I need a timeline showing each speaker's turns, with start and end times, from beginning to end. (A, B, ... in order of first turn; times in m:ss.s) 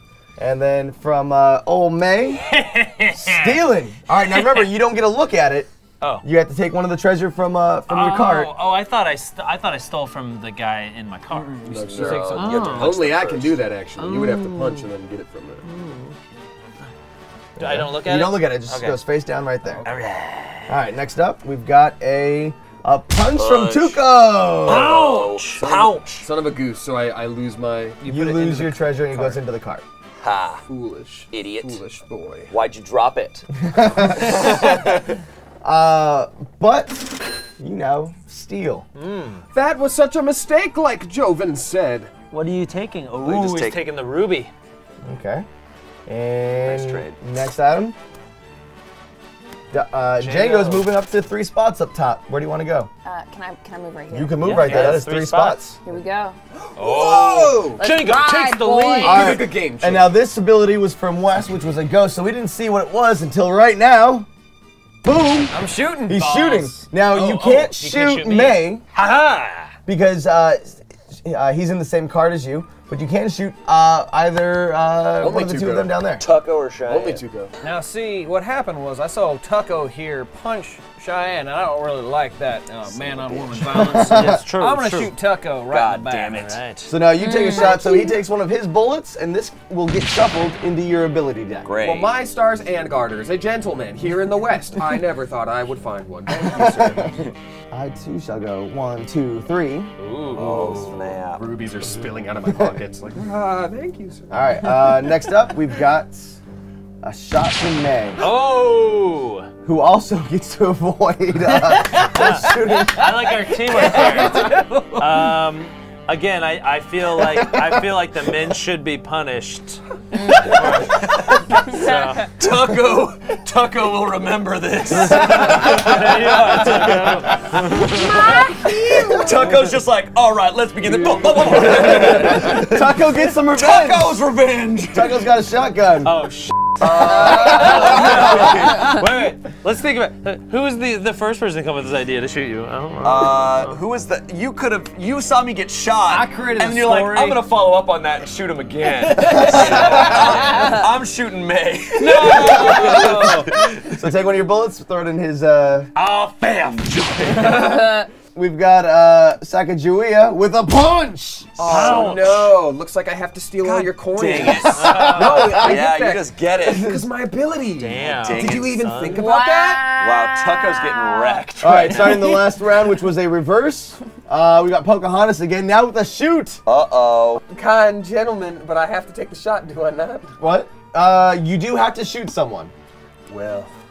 0:00.4-0:02.4 A
0:02.4-0:03.6 B
0:03.2-0:05.7 A
0:04.2-0:04.7 B
0:06.2-0:08.5 A
0:07.9-0:13.0 B
0:11.3-0:12.4 C
0:11.6-0:15.6 D
0:11.9-0:13.6 E
0:14.0-0:14.9 B
0:15.6-0:16.2 B
0:17.6-0:19.0 B
0:17.6-0:19.8 A
0:19.8-0:20.8 B
0:20.7-0:24.9 A
0:23.3-0:24.0 E
0:24.6-0:26.3 E
0:24.6-0:25.9 B
0:25.6-0:28.0 D
0:28.0-0:29.8 A
0:28.1-0:28.8 C
0:30.2-0:30.6 E
0:30.7-0:32.5 D
0:31.3-0:31.8 E
0:32.5-0:33.5 E
0:33.6-0:35.0 A
0:34.2-0:35.1 E
0:35.6-0:38.8 A
0:39.0-0:39.4 B
0:39.5-0:42.1 D
0:42.3-0:44.5 B
0:43.2-0:43.8 E
0:45.0-0:45.4 A
0:46.1-0:48.0 A
0:46.6-0:47.2 E
0:49.7-0:52.9 A
0:50.2-0:50.8 B
0:53.0-0:55.0 F
0:54.1-0:55.8 A
0:54.4-0:55.8 B
0:55.8-0:56.4 F
0:56.5-0:57.8 D
0:56.8-0:59.3 B
0:57.8-0:59.4 F
0:59.0-1:00.1 D
0:59.0-1:04.3 A
1:05.0-1:08.8 A
1:05.5-1:06.5 C
1:06.2-1:09.8 B
1:09.9-1:16.2 A
1:15.2-1:16.0 D
1:16.2-1:17.2 E
1:16.9-1:17.5 D
1:17.6-1:26.6 C
1:22.9-1:23.8 E
1:23.6-1:25.1 B
1:23.8-1:24.4 A
1:25.7-1:26.6 E
1:26.3-1:26.9 B
1:26.9-1:31.8 A
1:27.1-1:28.2 F
1:31.6-1:32.2 E
1:31.8-1:37.3 D
1:36.3-1:39.9 A
1:40.0-1:41.2 B
1:40.3-1:41.4 E
1:41.3-1:44.7 D
1:44.3-1:46.4 A
1:47.0-1:48.2 A
1:48.2-1:49.5 B
1:49.6-1:54.6 A
1:51.5-2:02.3 B
1:53.9-1:55.0 C
1:57.2-1:57.8 A
2:00.1-2:00.8 F
2:00.6-2:01.7 E
2:01.6-2:02.3 F
2:02.4-2:15.3 E
2:05.0-2:06.1 A
2:05.0-2:08.5 B
2:07.7-2:09.3 F
2:08.6-2:09.5 D
2:11.5-2:14.2 A
2:14.9-2:16.2 A
2:16.0-2:23.8 B
2:16.8-2:18.9 E
2:17.1-2:18.7 A
2:17.1-2:17.4 F
2:23.0-2:34.0 E
2:26.0-2:27.5 C
2:29.2-2:30.2 A
2:29.2-2:30.4 C
2:29.4-2:30.7 B
2:30.5-2:30.8 F
2:32.0-2:33.5 B
2:32.2-2:35.9 A
2:35.9-2:36.8 B
2:36.6-2:37.8 E
2:37.4-2:38.1 F
2:38.3-2:41.7 A
2:41.6-2:49.9 D
2:41.7-2:42.5 B
2:41.7-2:42.5 E
2:44.1-2:47.0 E
2:44.4-2:45.8 A
2:44.7-2:45.6 B
2:46.6-2:47.0 A
2:47.8-2:49.1 B
2:48.0-2:48.9 E
2:49.1-2:51.5 F
2:50.0-2:52.4 E
2:51.6-2:56.6 A
2:51.9-2:52.3 B
2:56.6-2:57.4 E
2:57.5-3:00.4 D
3:00.4-3:02.7 A
3:03.3-3:03.7 D